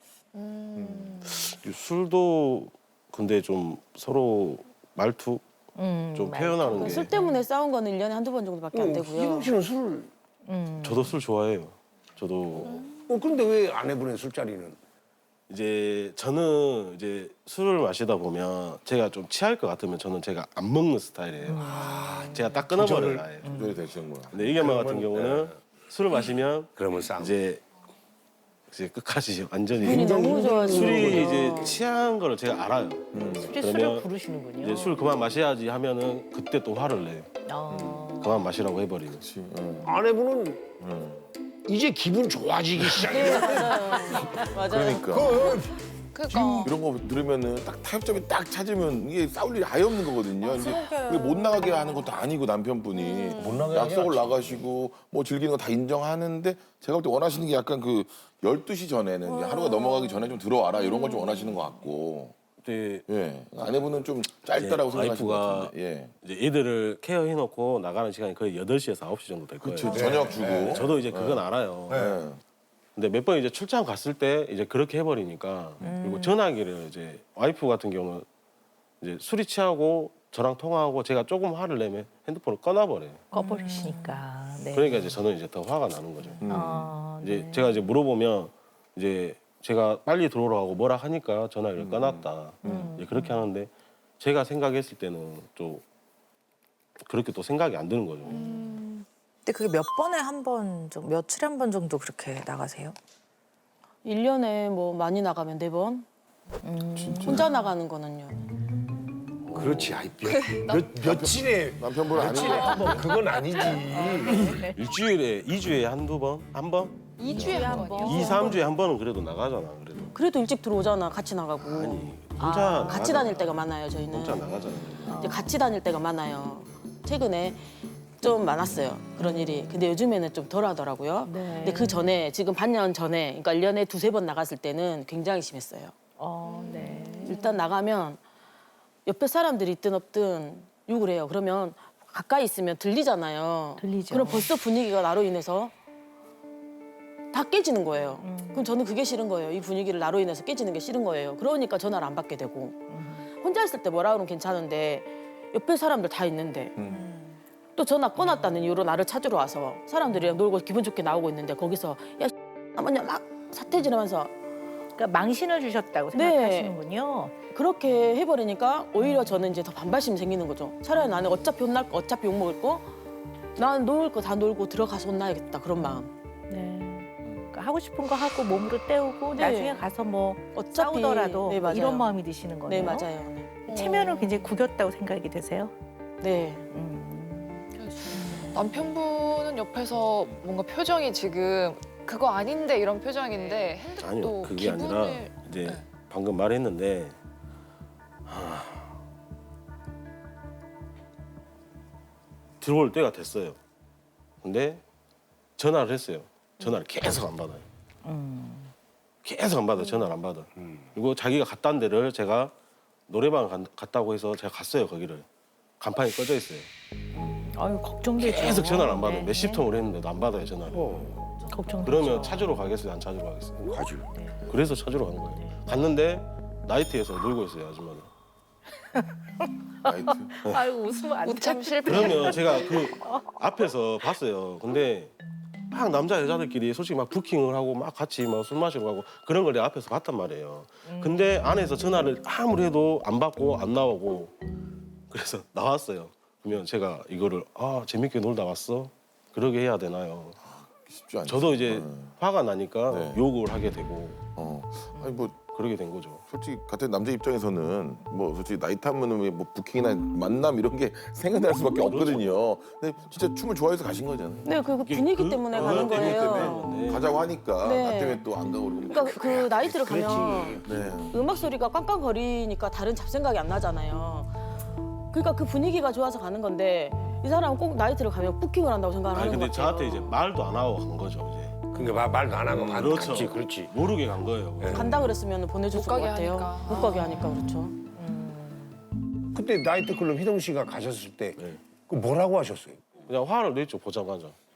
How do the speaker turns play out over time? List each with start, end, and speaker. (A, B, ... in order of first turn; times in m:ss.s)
0:00.3-0:01.2 A
0:00.8-0:01.1 B
0:01.2-0:05.4 C
0:05.8-0:07.5 D
0:06.1-0:07.1 C
0:06.7-0:09.5 E
0:08.7-0:10.1 F
0:10.4-0:11.2 D
0:10.8-0:12.8 C
0:13.0-0:14.8 F
0:15.5-0:23.4 C
0:21.4-0:22.7 D
0:21.6-0:22.3 F
0:22.8-0:24.4 B
0:22.8-0:23.2 F
0:23.4-0:23.9 D
0:24.3-0:27.6 C
0:24.4-0:25.6 F
0:26.7-0:27.4 F
0:28.7-0:34.1 C
0:29.8-0:31.6 F
0:29.8-0:31.8 E
0:33.1-0:33.5 B
0:33.3-0:35.0 D
0:34.6-0:37.3 C
0:37.4-0:38.5 D
0:37.7-0:38.1 B
0:38.2-0:39.2 C
0:39.1-0:40.0 B
0:39.8-0:40.6 F
0:40.8-0:41.2 B
0:41.7-0:44.2 F
0:42.8-0:43.3 B
0:43.1-0:45.3 E
0:44.6-0:45.5 B
0:45.1-0:45.7 F
0:46.1-0:46.7 A
0:46.3-1:02.3 B
0:50.4-0:52.1 G
0:52.9-0:53.6 A
0:53.3-0:54.7 F
0:59.3-1:00.2 G
1:02.6-1:03.0 C
1:03.1-1:06.1 B
1:03.7-1:10.1 C
1:09.6-1:12.4 B
1:09.9-1:11.0 F
1:10.6-1:12.0 C
1:11.9-1:12.2 F
1:13.0-1:18.3 C
1:15.8-1:16.3 D
1:19.0-1:23.3 C
1:23.3-1:25.2 D
1:24.7-1:26.4 C
1:26.3-1:27.9 D
1:26.4-1:26.9 B
1:27.1-1:35.8 C
1:31.8-1:32.9 B
1:32.6-1:33.5 D
1:37.0-1:38.5 C
1:38.3-1:38.6 D
1:38.3-1:38.8 A
1:39.4-1:42.9 G
1:40.5-1:41.0 D
1:44.0-1:46.0 E
1:46.6-1:47.7 D
1:46.9-1:47.4 B
1:47.1-1:48.4 E
1:49.5-1:54.6 F
1:49.5-1:49.9 B
1:51.0-1:53.2 B
1:53.7-1:54.8 D
1:54.6-1:57.0 C
1:57.2-1:58.6 A
1:57.3-1:58.2 B
1:57.4-1:58.6 D
1:57.9-2:00.1 C
2:00.1-2:04.5 E
2:01.6-2:05.1 C
2:05.0-2:05.6 D
2:05.1-2:07.6 E
2:08.2-2:16.0 E
2:09.2-2:09.9 D
2:11.2-2:12.2 D
2:16.2-2:17.6 D
2:16.6-2:18.2 E
2:16.7-2:17.2 A
2:19.0-2:25.7 E
2:23.8-2:24.6 D
2:27.3-2:36.7 E
2:28.2-2:28.7 D
2:32.9-2:33.3 D
2:36.8-2:37.0 B
2:37.8-2:44.3 E
2:38.2-2:38.6 D
2:40.0-2:40.4 D
2:45.0-2:47.4 D
2:46.1-2:46.8 E
2:47.5-2:52.9 E
2:49.0-2:49.6 D
2:50.9-2:51.4 D
2:53.6-2:56.1 E
2:55.8-3:03.1 D
2:59.3-2:59.9 E
3:00.5-3:03.7 E
3:03.7-3:04.5 A
3:03.7-3:05.7 D
3:06.2-3:06.7 E
3:06.7-3:08.6 D
3:07.8-3:15.8 A
3:13.3-3:13.7 E
3:14.0-3:17.2 C
3:18.3-3:18.9 C
3:22.6-3:23.6 C
3:24.4-3:24.8 C
3:25.6-3:27.6 C
3:28.0-3:28.7 D
3:29.2-3:32.5 C
3:29.8-3:30.1 D
3:33.1-3:35.2 C
3:35.8-3:36.7 C
3:37.2-3:39.7 D
3:38.2-3:41.2 C
3:41.4-3:42.6 D
3:41.8-3:43.7 C
3:43.7-3:44.0 F
3:44.1-3:44.5 D
3:44.5-3:48.1 C
3:45.3-3:45.6 D
3:49.8-3:50.6 B
3:50.4-3:53.2 D
3:51.1-3:52.6 A
3:51.8-3:55.1 C
3:55.7-4:04.3 C
4:00.8-4:01.5 D
4:05.1-4:10.4 C
4:10.4-4:12.2 B
4:11.2-4:14.2 C
4:12.9-4:13.2 B
4:14.4-4:15.4 B
4:14.9-4:15.3 D
4:15.5-4:16.2 C
4:16.3-4:24.5 B
4:21.9-4:22.4 C
4:24.4-4:27.0 E
4:24.8-4:27.0 C
4:25.5-4:29.5 B
4:27.6-4:34.3 E
4:29.1-4:30.9 F
4:30.6-4:31.2 B
4:35.1-4:40.2 E
4:39.1-4:41.7 C
4:41.7-4:43.8 F
4:42.5-4:45.1 C
4:44.6-4:44.9 F
4:44.7-4:47.8 E
4:45.7-4:47.3 A
4:48.0-4:48.8 D
4:49.3-4:52.8 F
4:53.0-4:54.4 C